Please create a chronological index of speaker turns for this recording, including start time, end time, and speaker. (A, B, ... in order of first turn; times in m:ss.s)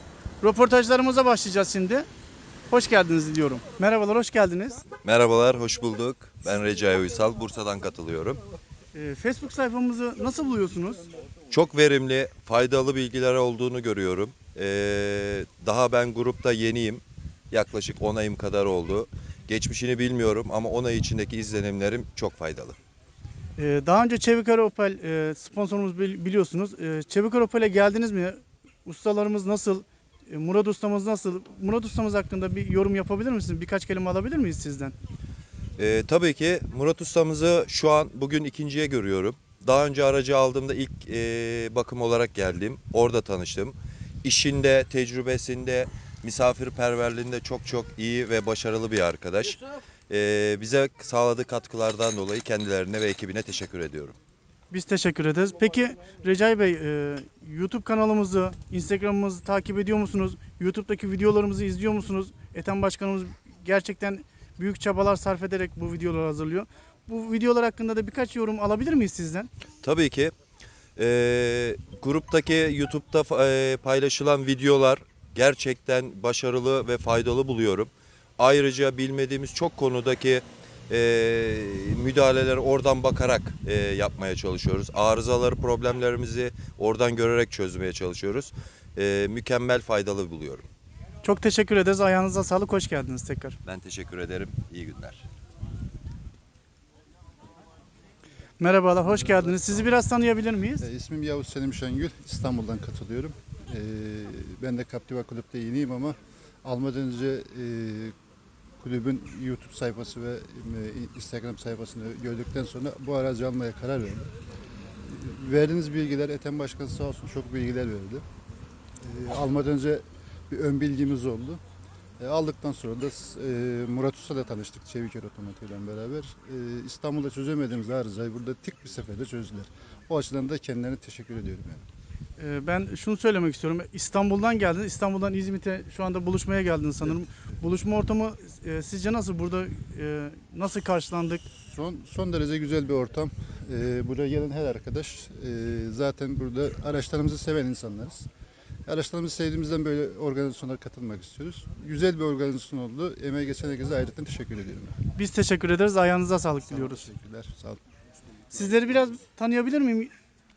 0:00.4-0:02.1 A
0:02.7-0:04.8 A
0:05.0-0:08.4 B
0:08.9-0:11.0 A
0:11.5-0:22.8 B
0:23.6-0:34.9 A
0:35.8-0:54.2 B
0:54.7-1:09.5 A
1:09.8-1:10.3 B
1:11.0-1:30.6 B
1:31.2-1:33.6 A
1:33.6-1:35.2 B
1:38.6-1:40.8 A
1:39.3-1:39.5 C
1:40.8-1:48.1 C
1:48.8-1:54.3 C
1:55.1-1:58.2 C
1:59.0-2:01.6 C
2:02.2-2:11.8 C
2:12.4-2:21.4 A
2:21.6-2:28.3 C
2:28.9-2:34.9 C
2:35.2-2:37.0 A
2:36.7-2:37.8 C
2:38.5-2:40.1 A